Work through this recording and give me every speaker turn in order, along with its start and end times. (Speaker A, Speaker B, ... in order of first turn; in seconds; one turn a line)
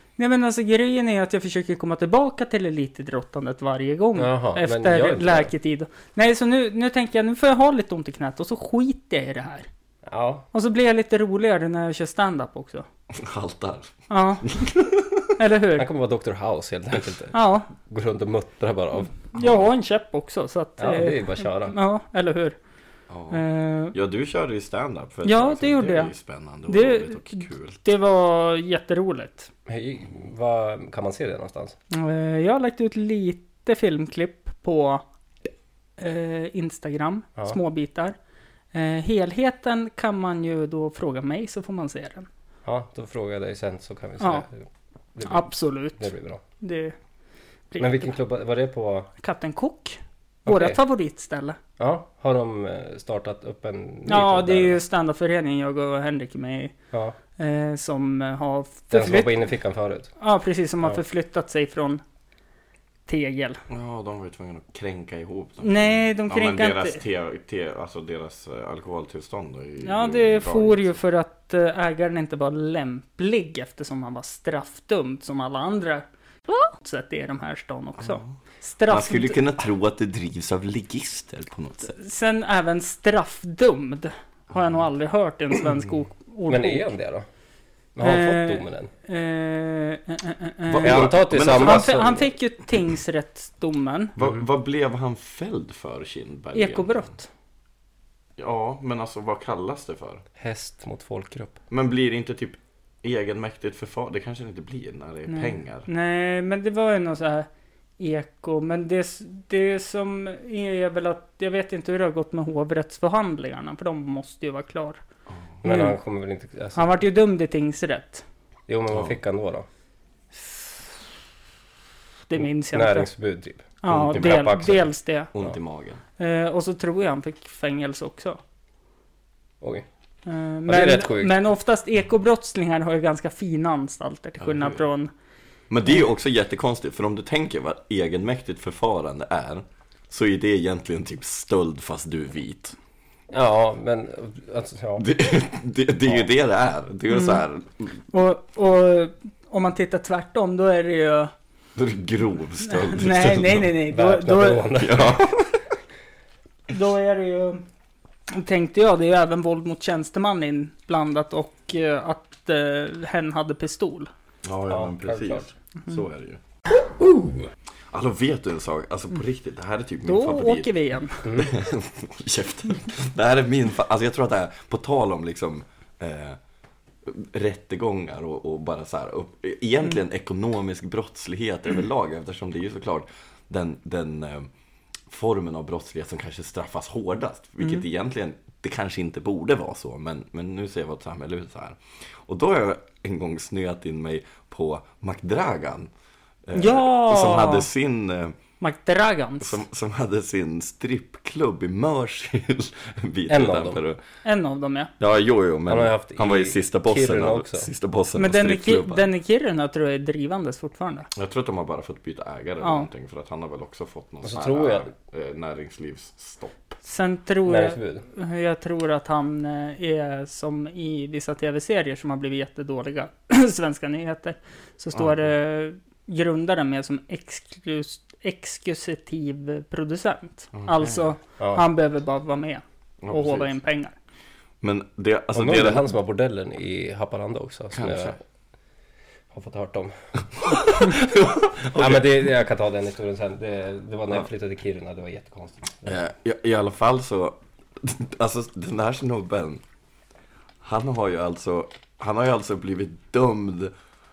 Speaker A: 0.2-9.7
Speaker B: 4.2-5.5
Speaker B: 10.1-10.4
Speaker A: 10.5-12.9
Speaker C: 13.1-15.3
Speaker A: 14.1-14.4
Speaker A: 15.4-15.9
Speaker B: 15.8-19.6
Speaker A: 17.3-17.7
Speaker A: 19.3-22.6
Speaker B: 20.8-21.8
Speaker C: 23.1-27.8
Speaker A: 23.3-24.0
Speaker A: 25.2-26.1
Speaker A: 26.7-29.5
Speaker B: 29.7-31.8
Speaker A: 31.9-35.0
Speaker A: 36.0-38.2
Speaker A: 38.7-42.3
Speaker B: 42.7-44.6
Speaker A: 44.2-44.5
Speaker B: 45.2-46.4
Speaker A: 45.2-46.1
Speaker A: 46.6-47.0
Speaker A: 47.7-48.1
Speaker B: 47.8-49.1
Speaker A: 49.2-51.6
Speaker B: 50.5-50.8
Speaker B: 51.8-54.8
Speaker A: 54.1-56.8
Speaker A: 57.4-59.5
Speaker B: 58.9-60.1
Speaker A: 60.2-62.0
Speaker A: 63.1-63.6
Speaker C: 63.7-71.0
Speaker A: 65.6-67.0
Speaker A: 69.8-79.4
Speaker C: 78.9-82.0
Speaker A: 81.9-86.9
Speaker B: 86.5-87.3
Speaker B: 88.0-88.9
Speaker A: 88.0-94.2
Speaker C: 90.7-92.0
Speaker B: 90.8-92.3
Speaker C: 94.2-97.1
Speaker A: 96.5-97.3
Speaker C: 98.4-100.2
Speaker B: 100.4-101.6
Speaker C: 101.7-105.9
Speaker A: 105.3-107.5
Speaker A: 108.0-115.0
Speaker B: 115.6-117.0
Speaker A: 115.6-116.0
Speaker A: 116.8-118.2
Speaker B: 118.7-119.7
Speaker A: 122.3-123.1
Speaker B: 122.4-124.8
Speaker A: 123.8-125.3
Speaker C: 123.9-126.0
Speaker A: 126.2-128.4
Speaker B: 129.6-129.9
Speaker A: 130.3-135.1
Speaker B: 130.7-131.3
Speaker C: 134.4-134.8
Speaker C: 135.7-142.8
Speaker B: 143.3-145.1
Speaker C: 145.0-148.0
Speaker A: 147.1-147.4
Speaker A: 148.1-151.3
Speaker C: 151.8-153.7
Speaker A: 152.7-154.8
Speaker B: 153.9-155.2
Speaker C: 154.8-155.6
Speaker A: 156.7-157.6
Speaker A: 158.3-164.1
Speaker C: 164.4-166.4
Speaker B: 164.7-165.4
Speaker C: 167.9-170.7
Speaker A: 170.1-171.3
Speaker B: 171.2-171.5
Speaker C: 171.3-176.4
Speaker C: 177.1-184.5
Speaker C: 185.1-195.9
Speaker C: 196.5-198.4
Speaker A: 196.6-197.7
Speaker A: 198.6-199.6
Speaker C: 199.4-204.0
Speaker B: 203.3-203.8
Speaker A: 204.2-204.9
Speaker C: 205.0-209.1
Speaker B: 205.7-207.7
Speaker A: 208.2-211.1
Speaker C: 211.1-216.8
Speaker A: 212.6-212.9
Speaker B: 214.2-214.9
Speaker A: 216.8-233.9
Speaker B: 217.5-218.0
Speaker C: 224.9-225.2
Speaker C: 230.5-231.1
Speaker C: 233.0-233.6
Speaker C: 234.6-235.9
Speaker B: 235.3-238.2
Speaker C: 237.7-238.2
Speaker B: 239.3-239.9
Speaker C: 240.3-242.2
Speaker B: 241.8-245.9
Speaker C: 245.8-249.6
Speaker C: 250.6-253.7